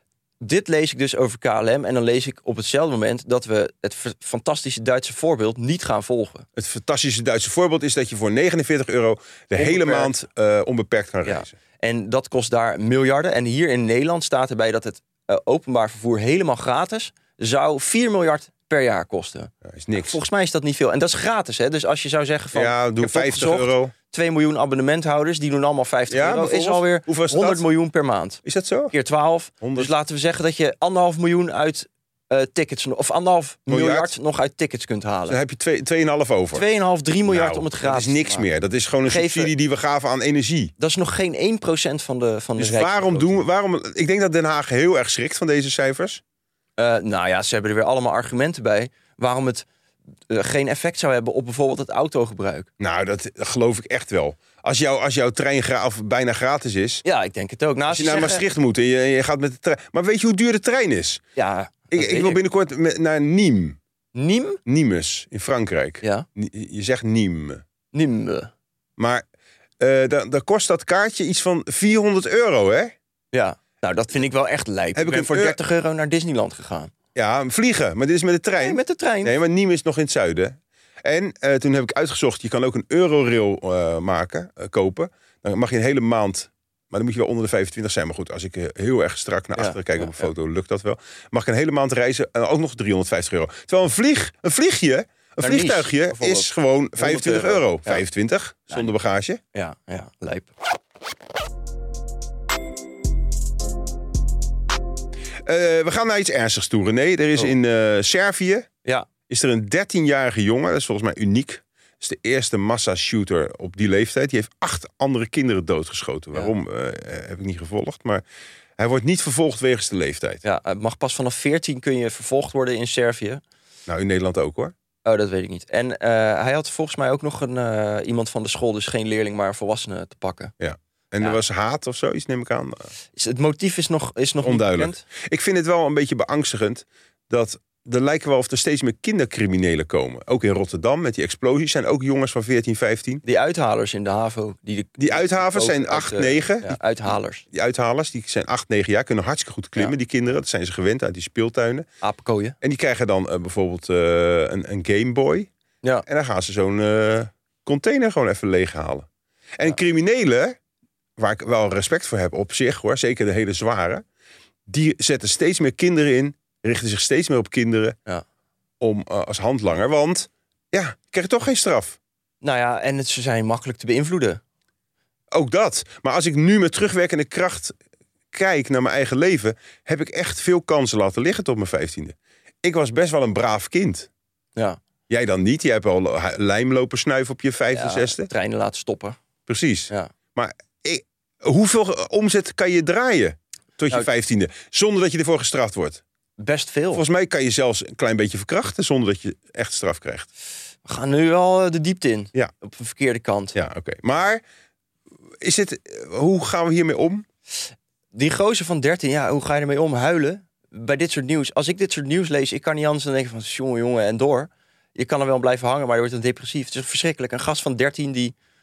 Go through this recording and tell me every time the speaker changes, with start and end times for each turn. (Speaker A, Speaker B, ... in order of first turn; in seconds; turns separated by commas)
Speaker A: 0.4-6.5, Speaker B: 6.5-11.5, Speaker A: 9.6-10.1, Speaker A: 11.2-35.4, Speaker B: 19.6-20.2, Speaker B: 22.5-23.9, Speaker B: 26.1-27.6, Speaker B: 28.4-28.9, Speaker B: 29.6-29.9, Speaker B: 33.7-34.1, Speaker B: 35.3-36.6, Speaker A: 36.5-38.5, Speaker B: 37.3-40.7, Speaker A: 39.0-39.5, Speaker A: 40.8-43.4, Speaker B: 42.6-46.2, Speaker A: 46.8-49.6, Speaker A: 50.3-52.7, Speaker B: 52.8-57.0, Speaker A: 57.0-58.4, Speaker B: 57.9-61.2, Speaker A: 61.4-62.4, Speaker B: 61.9-63.8, Speaker A: 64.1-64.6, Speaker B: 64.7-67.6, Speaker A: 67.9-68.5, Speaker B: 69.0-69.2, Speaker B: 69.8-72.9, Speaker A: 73.3-76.9, Speaker B: 74.9-75.6, Speaker B: 77.1-99.4, Speaker A: 78.6-79.3, Speaker A: 89.5-90.3, Speaker A: 95.4-98.0, Speaker A: 99.5-100.5, Speaker B: 105.4-108.7, Speaker B: 109.3-118.2, Speaker B: 118.8-120.4, Speaker A: 120.4-123.4, Speaker B: 123.9-124.7, Speaker A: 125.0-130.5, Speaker B: 130.6-132.9, Speaker A: 133.2-135.0, Speaker B: 134.4-143.2, Speaker A: 143.2-147.4, Speaker B: 145.0-146.8, Speaker B: 147.5-151.8, Speaker A: 152.0-152.6, Speaker B: 152.6-155.5, Speaker B: 156.0-160.6, Speaker B: 161.2-164.0, Speaker B: 164.7-167.9, Speaker B: 168.8-172.0, Speaker A: 172.4-174.4, Speaker B: 175.3-177.8, Speaker B: 178.3-184.1, Speaker B: 185.1-188.3, Speaker A: 187.7-189.2, Speaker B: 189.5-196.0, Speaker A: 196.4-197.0, Speaker B: 196.9-200.3, Speaker A: 200.8-203.6, Speaker B: 203.5-204.4, Speaker B: 205.4-207.2, Speaker A: 208.1-218.3